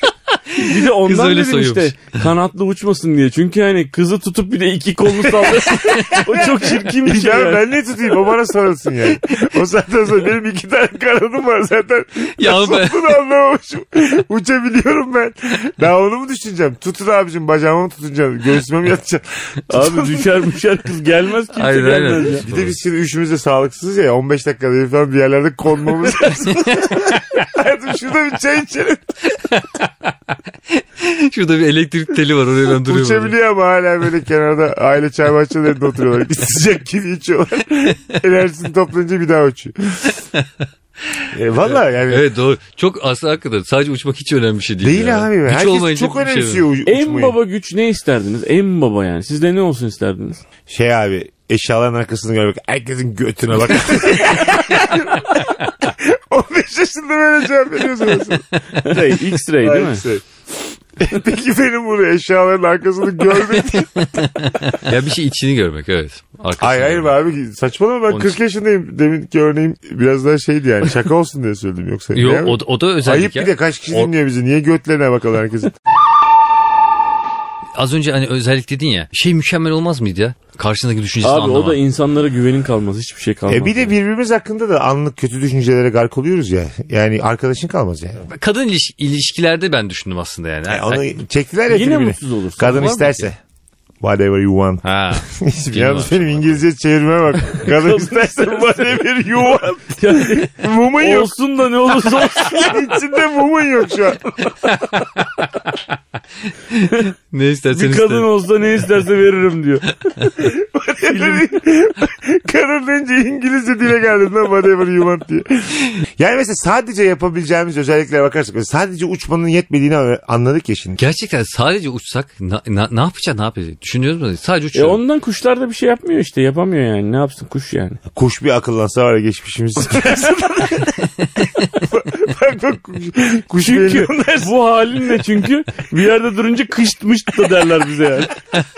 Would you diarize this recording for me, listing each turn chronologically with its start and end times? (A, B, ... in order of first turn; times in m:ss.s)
0:00.5-0:02.2 A
0:00.6-0:07.6 B
0:05.4-0:20.3 C
0:12.4-0:13.0 A
0:19.7-0:22.4 B
0:21.6-0:22.7 A
0:22.4-0:29.1 C
0:26.2-0:27.2 A
0:29.3-0:29.9 A
0:30.7-0:33.4 A
0:32.8-0:40.1 C
0:40.1-0:46.7 A
0:41.3-0:42.3 C
0:44.8-0:47.3 C
0:46.8-0:50.4 B
0:50.7-0:58.4 C
0:58.6-0:58.9 A
0:58.8-1:00.0 B
0:59.6-1:00.4 C
1:01.0-1:04.6 C
1:04.0-1:07.2 A
1:06.6-1:15.7 C
1:12.1-1:14.1 A
1:17.8-1:21.8 A
1:21.2-1:23.9 B
1:23.5-1:28.2 C
1:28.3-1:31.0 A
1:30.7-1:33.4 C
1:31.7-1:32.9 B
1:32.7-1:33.3 A
1:34.0-1:41.3 C
1:34.8-1:36.6 A
1:37.6-1:38.1 B
1:40.0-1:42.8 B
1:42.0-1:44.6 C
1:44.6-1:45.4 A
1:46.7-1:48.9 A
1:47.7-1:50.3 B
1:50.4-2:01.0 C
2:01.0-2:05.0 A
2:04.7-2:08.0 B
2:08.1-2:11.0 C
2:11.8-2:14.5 C
2:13.6-2:18.4 B